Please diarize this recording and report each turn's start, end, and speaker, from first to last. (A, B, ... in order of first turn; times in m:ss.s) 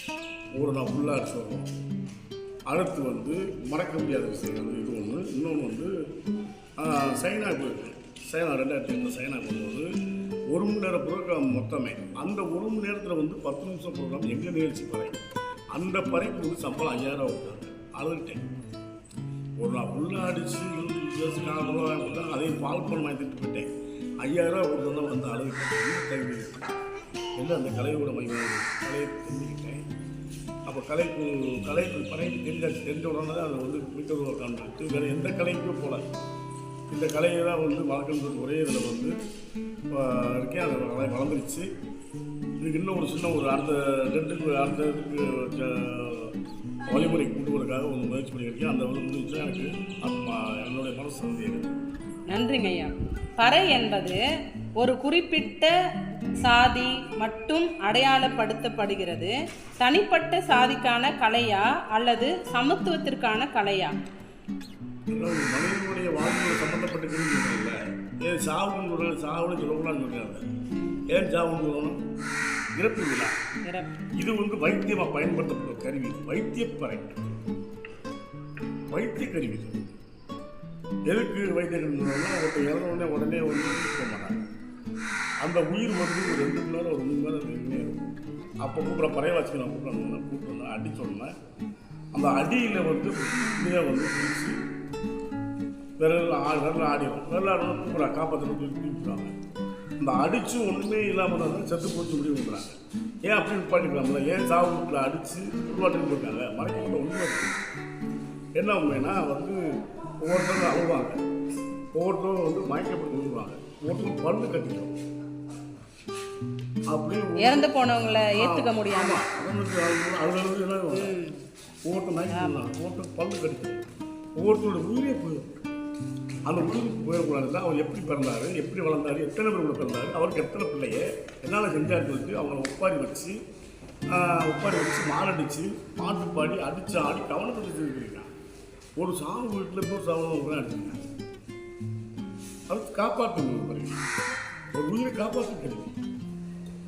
0:00.5-0:01.7 A
0:02.7-0:05.9 A
0:06.8-0:09.9 A
0:10.5-0:15.2 A
0:15.7-0:18.5 A
0:19.6-0:23.6 A
0:24.2-0:26.7 A
0:27.4-0:29.8 A
0:30.6-0:36.0 A
0:36.9-0:39.2 A
0:39.9-0:41.7 A
0:42.6-0:51.8 A
0:52.3-0:54.2 B
0:54.8-0:55.7 B
0:56.4-1:04.0 B
1:05.1-1:10.4 A
1:11.1-1:12.0 A
1:12.7-1:13.4 A
1:13.6-1:13.9 B
1:14.2-1:17.4 A
1:18.9-1:19.9 A
1:21.0-1:24.4 A
1:25.4-1:28.0 A
1:28.6-1:31.3 A
1:32.1-1:34.5 A
1:36.0-1:39.3 A
1:40.0-1:47.5 A
1:48.5-1:49.6 A
1:50.2-1:51.2 A
1:51.9-1:54.9 A
1:56.9-1:57.7 A
1:57.4-1:59.2 B
1:58.4-2:01.2 A
2:00.9-2:01.4 B
2:01.8-2:03.8 A
2:02.3-2:02.6 B
2:04.4-2:05.5 A
2:06.4-2:13.4 A
2:14.1-2:18.3 A
2:19.0-2:21.0 A
2:22.7-2:24.0 A
2:24.7-2:25.9 A